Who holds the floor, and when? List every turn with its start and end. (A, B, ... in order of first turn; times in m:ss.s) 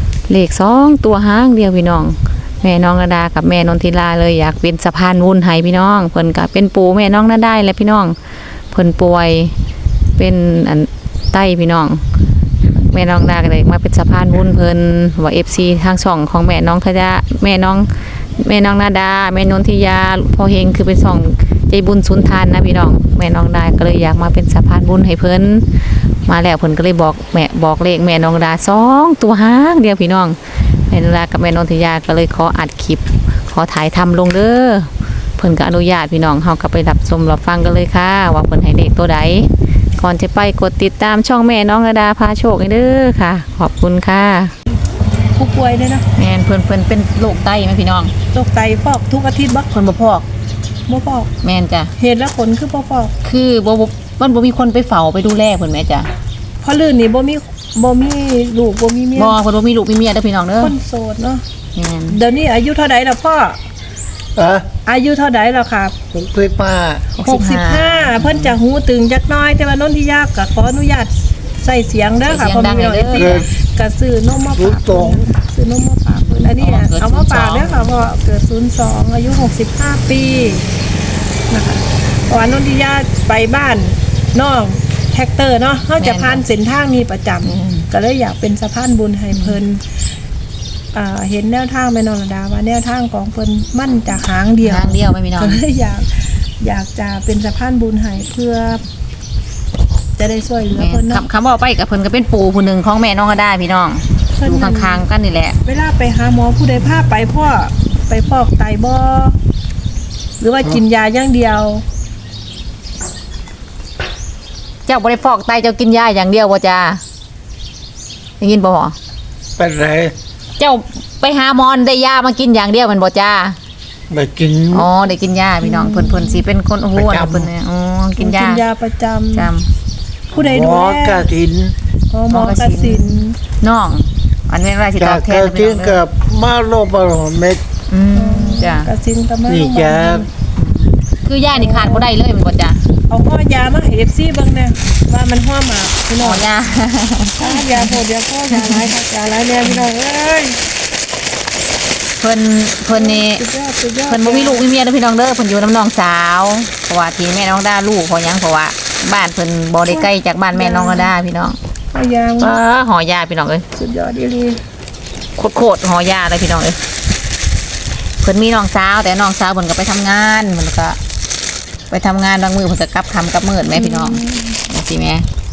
0:00.3-0:08.2 A
0:08.7-0:09.6 A
0:10.2-0:12.0 A
0:12.8-0:44.5 A
0:45.4-0:46.1 B
0:46.2-0:48.1 A
0:48.3-0:49.7 B
0:49.7-0:50.3 A
0:50.9-0:51.3 B
0:51.4-0:51.9 A
0:52.0-0:53.1 B
0:53.2-0:56.1 A
0:56.6-0:59.4 B
0:59.2-1:00.7 A
1:00.6-1:01.4 B
1:01.8-1:02.2 A
1:02.1-1:03.6 B
1:04.4-1:04.7 C
1:04.9-1:06.0 B
1:06.1-1:07.0 C
1:07.2-1:08.6 A
1:07.3-1:20.7 B
1:12.3-1:13.5 A
1:13.2-1:13.4 C
1:14.6-1:15.2 C
1:16.2-1:17.9 A
1:21.5-1:29.8 B
1:26.0-1:26.4 A
1:27.4-1:27.9 A
1:29.3-1:29.6 A
1:30.9-1:38.8 B
1:34.6-1:35.6 A
1:40.2-1:41.3 B
1:40.7-1:45.6 A
1:44.4-1:45.0 B
1:45.6-1:49.4 B
1:50.4-1:51.8 B
1:54.9-1:57.0 A
1:58.4-1:59.0 A
1:59.6-2:00.1 C
2:00.6-2:03.6 A
2:04.1-2:04.9 C
2:04.7-2:08.6 A
2:05.6-2:06.4 B
2:07.0-2:07.5 C
2:08.2-2:09.5 B
2:09.3-2:09.7 A
2:10.3-2:11.3 B
2:10.4-2:11.7 C
2:12.1-2:13.4 B
2:12.3-2:16.0 A
2:15.0-2:17.6 C
2:17.9-2:18.9 A
2:18.1-2:20.3 B
2:19.5-2:20.2 C
2:20.6-2:22.9 A
2:21.5-2:22.1 B
2:23.1-2:26.5 B
2:26.2-2:28.0 A
2:27.4-2:30.6 B
2:28.5-2:28.9 A
2:32.2-2:33.4 A
2:32.9-2:34.7 B
2:34.1-2:41.6 A
2:39.9-2:41.1 B
2:41.9-2:42.6 B
2:42.4-2:43.6 A
2:43.8-2:44.6 B
2:45.4-2:46.8 A
2:48.2-2:51.0 A
2:51.9-2:55.3 A
2:53.7-2:54.6 B